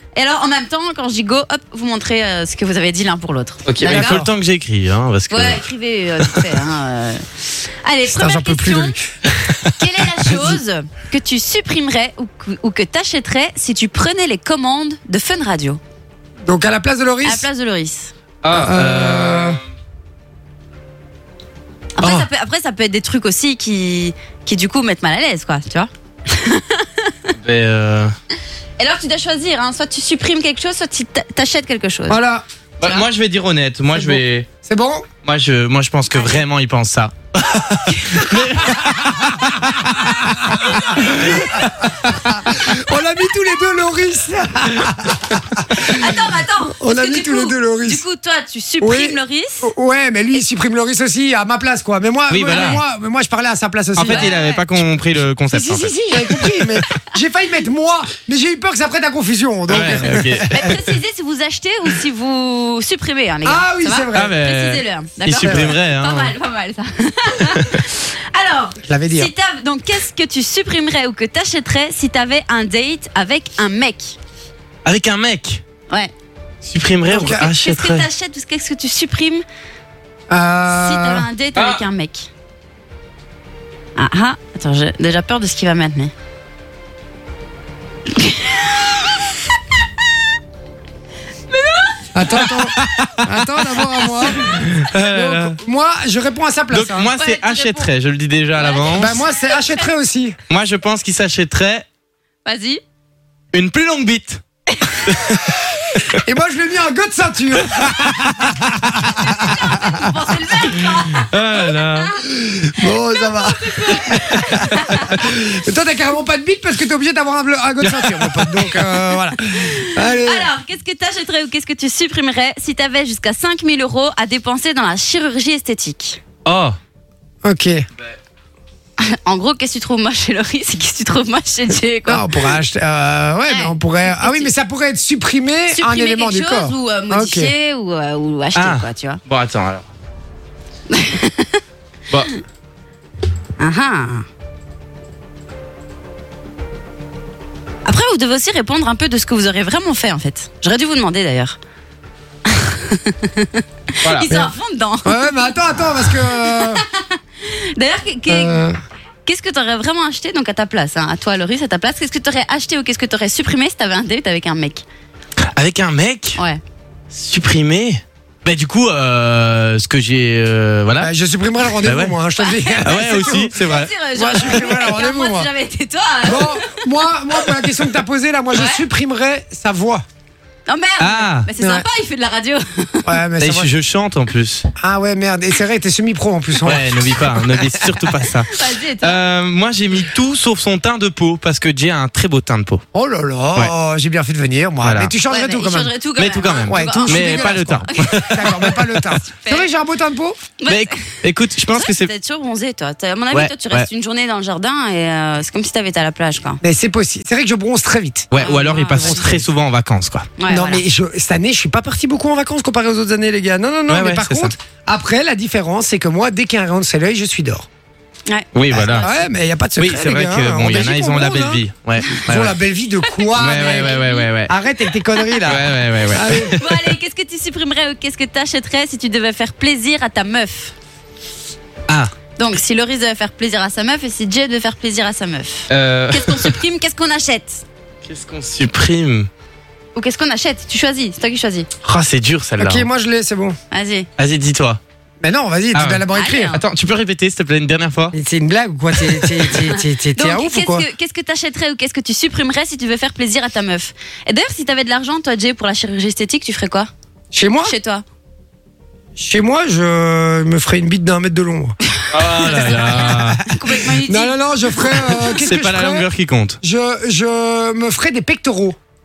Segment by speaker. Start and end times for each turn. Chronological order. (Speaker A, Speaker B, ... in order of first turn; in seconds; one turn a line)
Speaker A: 0.2-4.2
Speaker B: 3.7-5.7
Speaker C: 3.9-4.3
Speaker A: 5.3-9.0
Speaker B: 6.2-6.5
Speaker C: 8.1-9.3
Speaker A: 9.8-15.8
Speaker C: 10.3-10.6
Speaker C: 16.5-17.5
Speaker A: 17.2-18.1
Speaker B: 18.4-19.6
Speaker C: 18.5-19.6
Speaker A: 22.0-27.3
Speaker C: 22.0-22.3
Speaker B: 27.4-28.1
Speaker A: 28.8-32.2
Speaker C: 32.1-32.4
Speaker B: 32.8-34.5
Speaker C: 34.0-35.1
Speaker B: 35.2-41.7
Speaker A: 36.1-36.4
Speaker A: 37.9-38.3
Speaker C: 38.7-48.0
Speaker A: 45.8-49.7
Speaker C: 48.8-54.4
Speaker B: 52.3-52.8
Speaker A: 52.5-52.8
Speaker B: 54.0-56.8
Speaker A: 54.0-54.7
Speaker C: 55.5-60.8
Speaker B: 59.7-60.8
Speaker A: 59.8-74.2
Speaker C: 63.5-64.4
Speaker B: 64.1-66.3
Speaker C: 65.4-65.8
Speaker C: 68.8-69.3
Speaker B: 74.8-75.6
Speaker B: 76.6-78.1
Speaker C: 77.1-77.5
Speaker A: 77.2-79.4
Speaker C: 80.3-81.3
Speaker A: 80.7-82.3
Speaker B: 81.6-81.8
Speaker A: 84.0-86.1
Speaker A: 88.2-89.3
Speaker A: 91.5-92.7
Speaker C: 92.1-97.1
Speaker B: 92.3-95.6
Speaker A: 94.0-94.5
Speaker B: 96.7-99.2
Speaker A: 97.1-97.9
Speaker A: 98.5-99.9
Speaker C: 98.9-100.4
Speaker B: 100.5-101.9
Speaker A: 102.5-102.8
Speaker B: 103.5-104.4
Speaker A: 104.8-105.0
Speaker B: 105.0-106.2
Speaker C: 106.1-110.1
Speaker B: 107.7-108.5
Speaker A: 109.0-112.2
Speaker B: 111.1-112.2
Speaker C: 112.2-120.5
Speaker A: 112.8-115.2
Speaker B: 117.8-118.9
Speaker A: 119.6-126.2
Speaker B: 126.5-126.8
Speaker C: 127.4-127.8
Speaker A: 129.0-132.6
Speaker C: 132.1-137.5
Speaker A: 133.5-134.5
Speaker A: 135.7-139.2
Speaker B: 138.6-139.8
Speaker A: 140.9-141.6
Speaker A: 143.6-144.2
Speaker A: 147.8-151.6
Speaker A: 152.5-158.7
Speaker B: 154.0-154.5
Speaker C: 155.1-156.8
Speaker C: 158.3-158.8
Speaker A: 159.3-164.8
Speaker B: 165.5-166.4
Speaker B: 167.1-171.1
Speaker C: 171.0-173.6
Speaker B: 171.8-172.2
Speaker A: 172.4-177.9
Speaker B: 172.8-174.4
Speaker C: 174.2-175.5
Speaker C: 176.2-180.0
Speaker A: 178.5-178.8
Speaker A: 180.7-183.1
Speaker B: 181.0-181.5
Speaker C: 181.6-181.8
Speaker C: 183.1-183.7
Speaker B: 183.4-184.7
Speaker C: 184.8-187.8
Speaker B: 186.6-192.8
Speaker A: 188.5-189.2
Speaker C: 192.9-195.9
Speaker B: 194.8-195.1
Speaker A: 195.3-199.7
Speaker B: 196.2-199.0
Speaker C: 196.7-200.4
Speaker A: 200.6-201.2
Speaker B: 200.7-202.1
Speaker A: 201.7-206.6
Speaker B: 203.3-203.9
Speaker C: 206.6-209.5
Speaker B: 208.3-210.3
Speaker A: 208.4-209.3
Speaker A: 210.4-210.8
Speaker C: 210.5-217.7
Speaker B: 213.9-214.5
Speaker A: 218.3-219.3
Speaker B: 218.5-219.1
Speaker C: 218.7-221.6
Speaker B: 219.8-222.6
Speaker C: 222.3-226.6
Speaker A: 223.2-224.3
Speaker B: 223.4-224.5
Speaker B: 225.4-226.6
Speaker A: 226.5-230.7
Speaker A: 232.4-237.6
Speaker B: 235.7-236.6
Speaker B: 238.1-239.3
Speaker A: 239.9-241.7
Speaker B: 241.8-242.9
Speaker C: 242.6-243.6
Speaker A: 243.7-244.1
Speaker B: 244.2-244.8
Speaker C: 245.2-246.6
Speaker B: 245.7-248.2
Speaker A: 246.1-246.6
Speaker C: 248.1-250.9
Speaker B: 249.0-249.4
Speaker A: 249.6-256.9
Speaker C: 257.3-257.8
Speaker A: 257.6-258.0
Speaker C: 259.2-261.8
Speaker B: 262.1-263.4
Speaker C: 262.5-266.1
Speaker A: 262.6-265.3
Speaker B: 265.1-266.6
Speaker C: 266.6-268.8